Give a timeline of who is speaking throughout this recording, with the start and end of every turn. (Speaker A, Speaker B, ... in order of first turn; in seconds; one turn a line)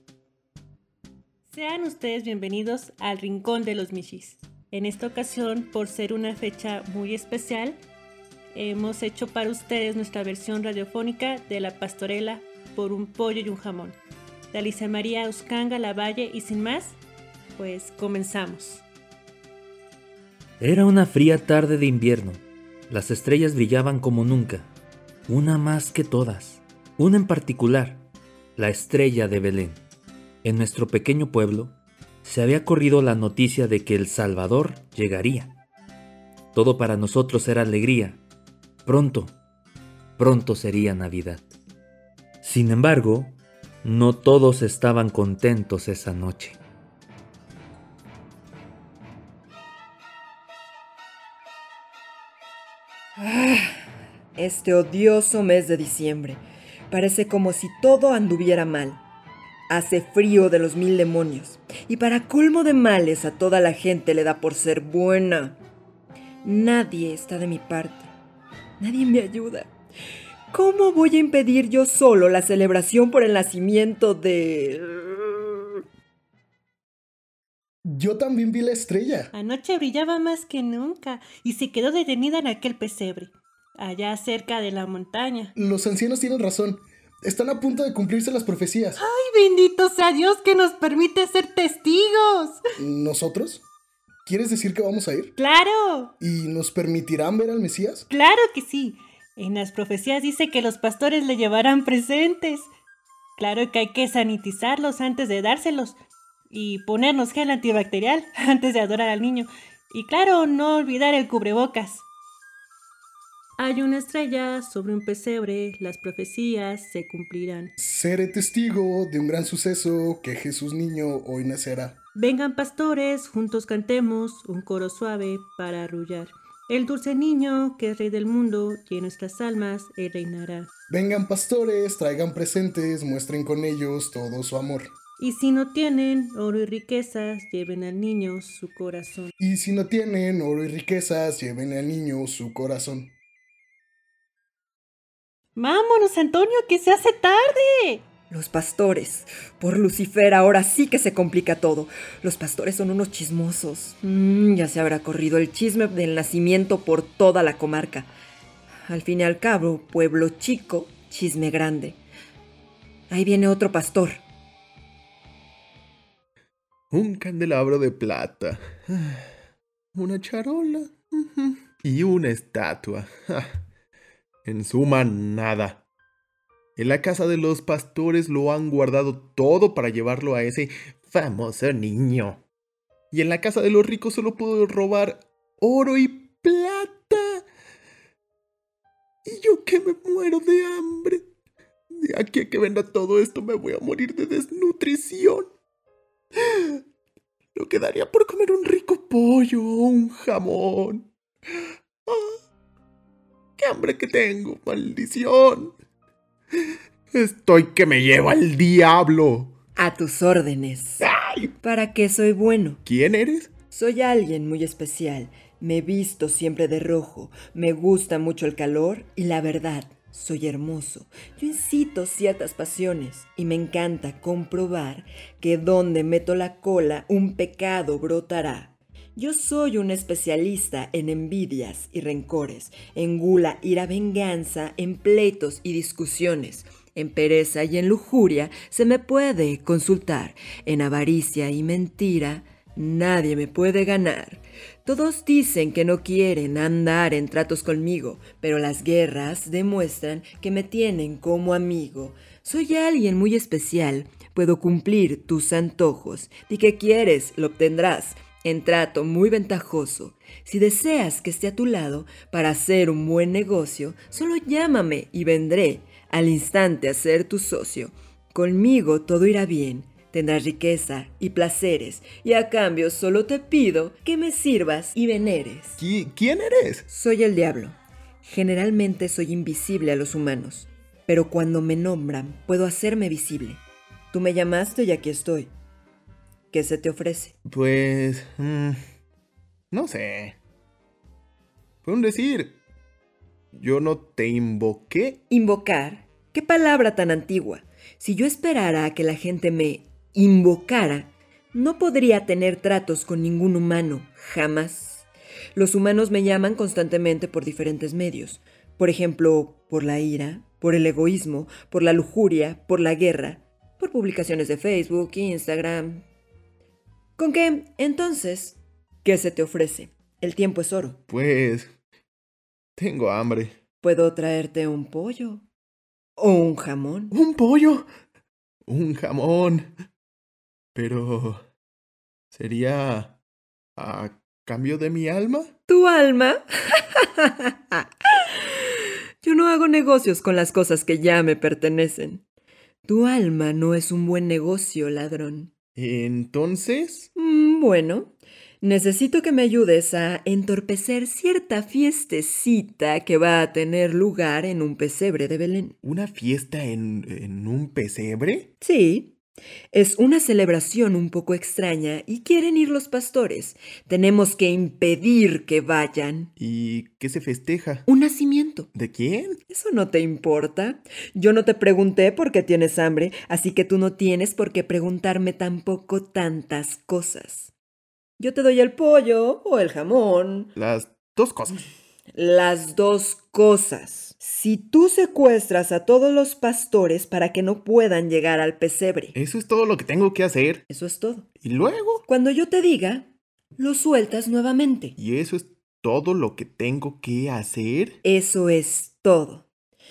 Speaker A: 1.4-7.8
Speaker A: 8.5-14.0
Speaker A: 14.5-17.0
Speaker A: 17.6-18.8
Speaker B: 20.6-24.7
Speaker B: 25.3-29.8
Speaker B: 30.4-35.6
Speaker B: 36.5-38.2
Speaker B: 38.9-39.4
Speaker B: 40.2-41.5
Speaker B: 42.4-46.6
Speaker C: 53.2-53.9
Speaker C: 54.4-59.0
Speaker C: 59.7-65.6
Speaker C: 66.4-68.1
Speaker C: 68.8-69.7
Speaker C: 70.5-75.5
Speaker D: 77.9-79.3
Speaker A: 79.3-85.5
Speaker D: 85.6-89.0
Speaker A: 89.0-92.6
Speaker D: 92.8-93.6
Speaker D: 94.2-95.3
Speaker A: 95.4-96.1
Speaker D: 96.2-98.1
Speaker A: 98.1-102.7
Speaker A: 103.4-106.0
Speaker A: 106.5-112.0
Speaker A: 113.6-117.7
Speaker D: 117.8-122.0
Speaker A: 122.2-130.7
Speaker D: 130.9-134.9
Speaker A: 135.2-139.3
Speaker D: 139.4-143.1
Speaker A: 145.6-148.1
Speaker C: 148.3-158.1
Speaker C: 158.9-162.0
Speaker C: 163.1-164.2
Speaker E: 166.9-169.3
Speaker E: 169.9-173.6
Speaker E: 174.4-175.8
Speaker E: 176.8-182.4
Speaker E: 183.1-187.4
Speaker E: 189.2-191.2
Speaker E: 192.0-195.5
Speaker E: 196.4-196.8
Speaker E: 197.6-201.1
Speaker E: 202.1-202.4
Speaker E: 203.6-205.7
Speaker E: 207.1-209.6
Speaker C: 209.8-211.0
Speaker E: 211.0-211.5
Speaker C: 211.6-212.8
Speaker E: 212.8-213.5
Speaker C: 213.7-275.8
Speaker E: 275.8-276.9
Speaker C: 276.9-285.5
Speaker C: 286.5-287.3
Speaker E: 287.5-288.8
Speaker E: 289.7-290.4
Speaker E: 291.8-292.6
Speaker E: 293.5-295.2
Speaker C: 295.3-316.0
Speaker C: 317.2-321.0
Speaker E: 321.1-321.7
Speaker E: 322.8-323.6
Speaker C: 323.8-325.4
Speaker C: 326.2-327.1
Speaker E: 327.1-327.9
Speaker E: 328.7-329.7
Speaker E: 330.8-331.4
Speaker E: 332.3-333.2
Speaker E: 333.8-335.5
Speaker C: 335.7-338.6
Speaker C: 339.2-342.2
Speaker C: 342.9-345.5
Speaker E: 345.8-347.1
Speaker C: 347.2-355.8
Speaker E: 355.8-358.5
Speaker C: 358.6-359.2
Speaker C: 359.7-366.3
Speaker E: 366.4-367.9
Speaker C: 367.9-368.7
Speaker E: 368.7-369.4
Speaker C: 369.5-377.5
Speaker C: 378.2-380.5
Speaker E: 380.6-381.6
Speaker C: 382.1-389.1
Speaker E: 389.1-390.6
Speaker C: 390.7-391.3
Speaker E: 391.4-392.1
Speaker C: 392.1-394.9
Speaker E: 395.0-398.0
Speaker C: 398.0-399.4